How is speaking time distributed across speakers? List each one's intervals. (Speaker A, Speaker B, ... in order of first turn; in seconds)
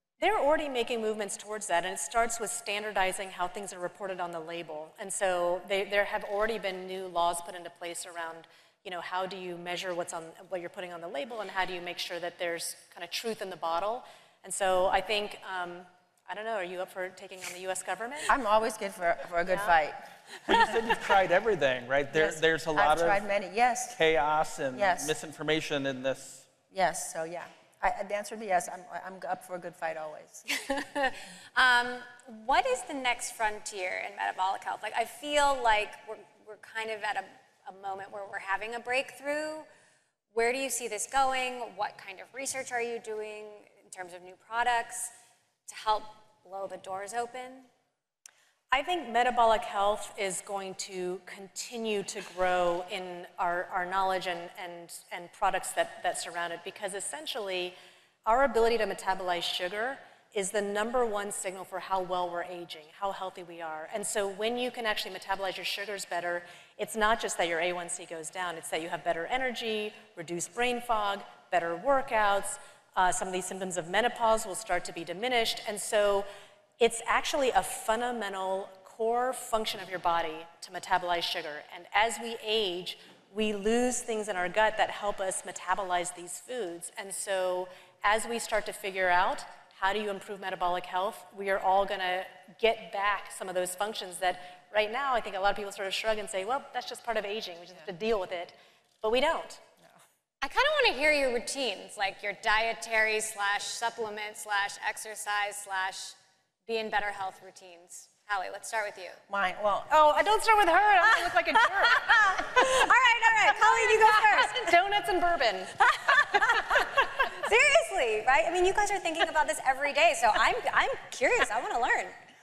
Speaker A: 0.2-18.3, 48.7-76.3, 76.8-99.6, 109.9-112.6, 113.7-115.8
Speaker B: 18.3-20.0, 22.1-24.0, 24.7-25.1, 26.7-30.4, 109.3-109.9
Speaker C: 20.5-23.2, 23.9-26.5
Speaker D: 30.5-39.7, 40.3-45.1, 45.7-47.7, 100.4-106.2, 106.7-109.2, 112.0-114.7, 115.8-122.1